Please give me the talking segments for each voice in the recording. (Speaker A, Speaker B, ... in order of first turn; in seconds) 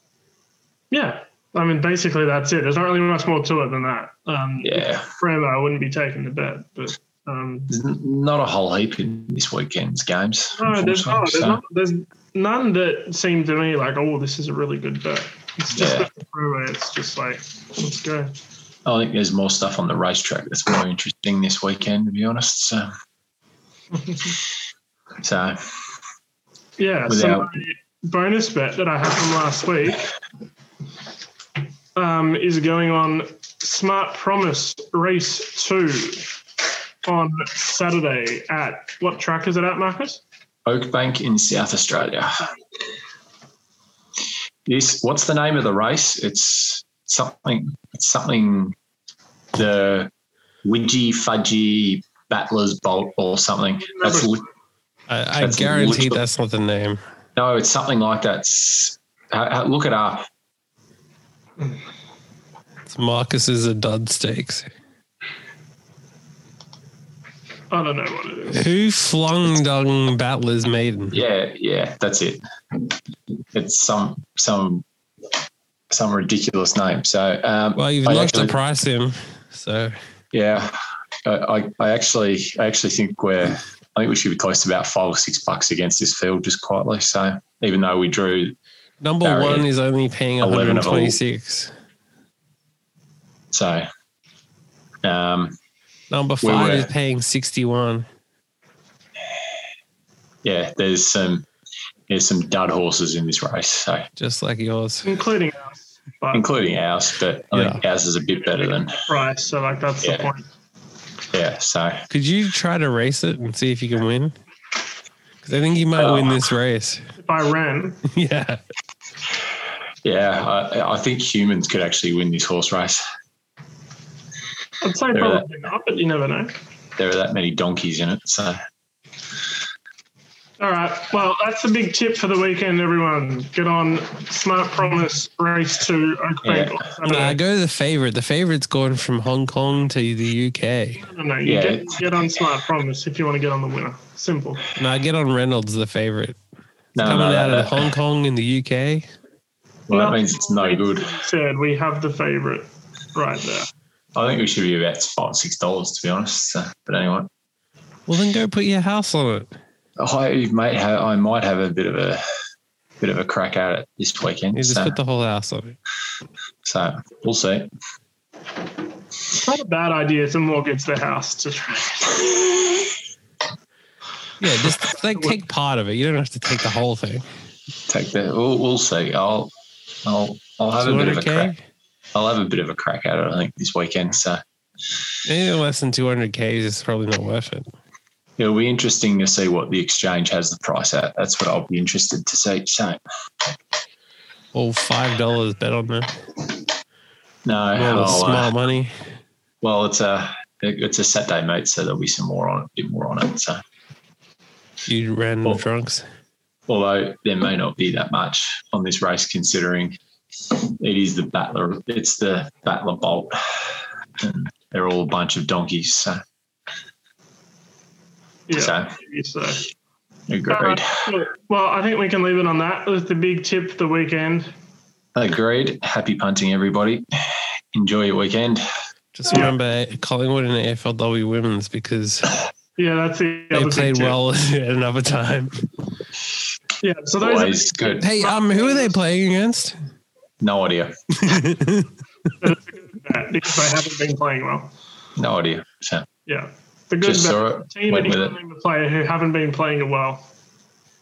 Speaker A: 0.9-7.7, 10.6-18.4, 26.8-30.1, 31.9-36.4, 37.0-40.2, 53.8-54.4, 67.7-68.7, 105.0-106.5, 108.3-110.5, 117.2-118.0, 124.8-126.6, 130.6-137.4, 141.0-144.7, 149.9-153.7, 169.3-172.8, 218.5-219.6, 220.5-224.5, 229.2-229.5, 232.8-234.2, 236.8-239.0, 242.4-244.7, 246.3-250.3
Speaker B: 4.6-5.1, 7.7-11.6, 15.7-16.1, 18.9-22.9, 25.2-25.6, 27.1-27.5, 40.7-42.5, 44.7-48.8, 49.5-50.1, 50.6-54.4, 55.4-56.2, 57.4-60.3, 71.1-72.4, 73.5-74.8, 75.9-78.5, 80.3-88.5, 89.2-89.7, 90.4-91.2, 93.5-93.9, 95.0-95.6, 96.4-96.9, 100.4-101.5, 102.1-104.1, 106.3-109.0, 110.0-110.3, 111.3-112.1, 116.0-116.5, 120.0-123.0, 125.1-125.5, 127.0-128.6, 136.4-136.8, 141.4-142.1, 147.0-147.9, 149.9-151.2, 154.2-157.3, 160.0-162.2, 163.0-165.0, 166.6-167.7, 177.9-179.5, 180.0-181.5, 182.1-184.4, 188.4-193.0, 197.5-198.5, 199.6-203.6, 206.7-210.0, 210.6-213.6, 214.2-216.2, 218.5-218.9, 220.3-221.1, 225.2-227.1, 227.7-228.6, 237.2-238.1, 240.4-240.9, 245.2-246.1, 247.0-248.4
Speaker C: 55.1-57.0, 62.9-64.7, 68.5-71.2, 77.8-79.9, 89.0-91.7, 96.1-98.1, 104.2-105.1, 107.5-107.8, 112.1-114.3, 115.4-117.1, 118.1-118.6, 137.0-141.0, 144.8-146.4, 147.0-149.1, 158.1-159.5, 164.6-165.8, 174.4-177.2, 180.8-181.6, 185.3-187.7, 194.5-196.1, 197.8-198.9, 204.9-206.0, 229.2-232.3, 233.5-235.6, 238.0-239.8, 241.2-241.9